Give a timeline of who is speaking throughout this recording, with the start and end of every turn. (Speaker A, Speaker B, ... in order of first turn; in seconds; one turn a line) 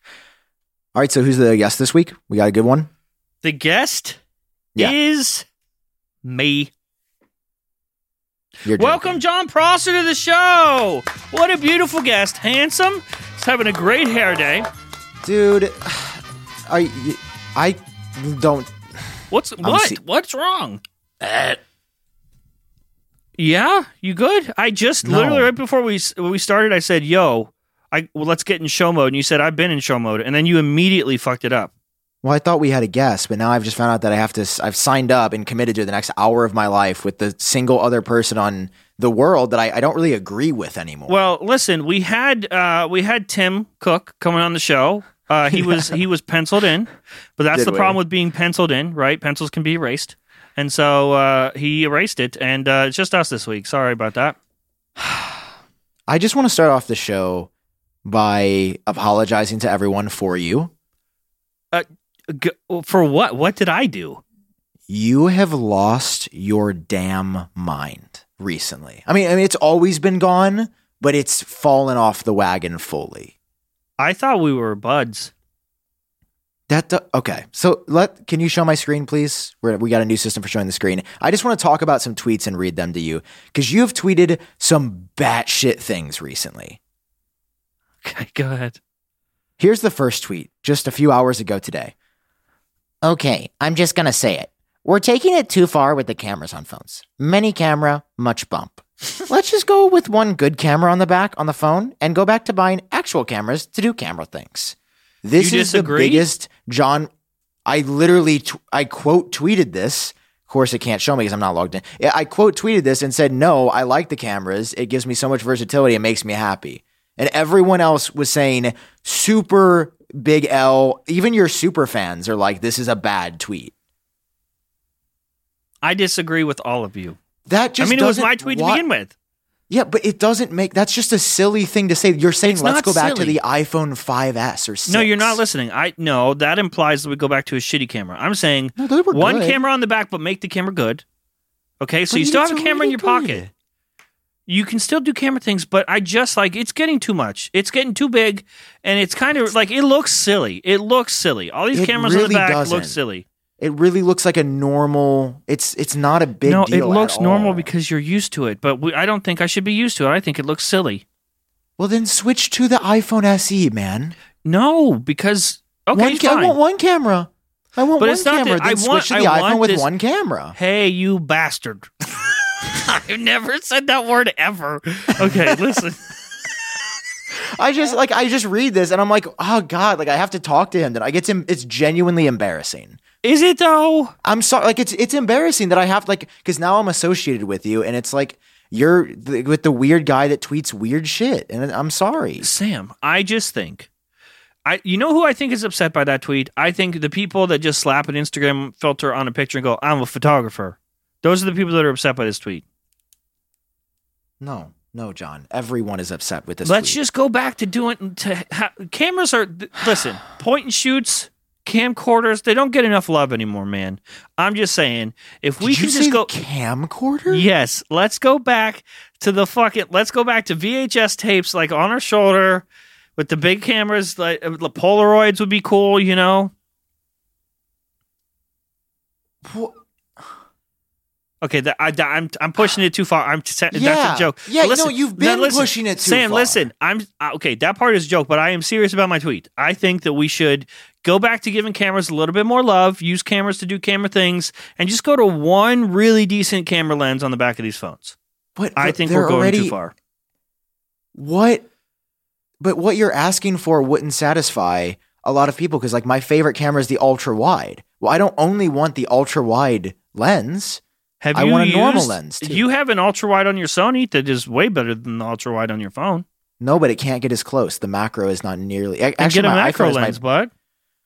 Speaker A: 0.9-2.9
Speaker B: 3.4-4.2
Speaker B: 4.8-5.5
Speaker B: 6.2-6.7
Speaker A: 8.7-9.2
Speaker B: 8.8-14.7
Speaker A: 15.2-19.0
Speaker B: 19.3-20.8
Speaker A: 19.6-20.0
Speaker A: 21.2-21.6
Speaker B: 23.4-31.7
Speaker A: 25.0-25.5
Speaker A: 32.2-41.2
Speaker B: 41.1-54.4
Speaker A: 45.5-45.9
Speaker A: 47.5-48.0
Speaker A: 55.0-55.5
Speaker A: 56.1-57.5
Speaker A: 58.0-60.7
Speaker B: 61.7-64.2
Speaker A: 64.9-73.3
Speaker B: 74.0-75.3
Speaker A: 76.7-86.8
Speaker B: 88.0-88.8
Speaker A: 89.6-91.9
Speaker A: 93.0-107.1
Speaker B: 105.4-106.3
Speaker A: 107.7-123.7
Speaker B: 125.8-127.2
Speaker A: 127.5-128.8
Speaker B: 127.8-129.1
Speaker A: 129.7-135.4
Speaker B: 132.4-133.4
Speaker B: 134.9-141.0
Speaker A: 138.8-139.6
Speaker B: 141.8-143.4
Speaker A: 142.1-143.5
Speaker B: 144.5-153.2
Speaker A: 151.7-153.0
Speaker A: 153.6-157.7
Speaker B: 156.4-161.0
Speaker A: 161.8-164.2
Speaker B: 164.4-166.6
Speaker A: 165.9-170.6
Speaker B: 168.0-169.9
Speaker B: 170.6-176.1
Speaker A: 175.2-175.8
Speaker A: 177.6-183.0
Speaker B: 183.2-184.1
Speaker A: 184.2-192.5
Speaker B: 192.4-193.9
Speaker B: 194.7-202.6
Speaker A: 204.4-207.0
Speaker B: 206.6-216.3
Speaker A: 215.6-217.5
Speaker B: 217.3-222.7
Speaker B: 223.2-226.5
Speaker A: 229.4-229.8
Speaker B: 231.4-248.2
Speaker A: 233.7-236.7
Speaker A: 248.6-249.8
Speaker B: 248.8-249.9
Speaker A: 251.2-251.7
Speaker A: 252.6-260.8
Speaker B: 261.2-266.2
Speaker A: 261.3-262.6
Speaker A: 266.6-270.2
Speaker B: 269.2-270.5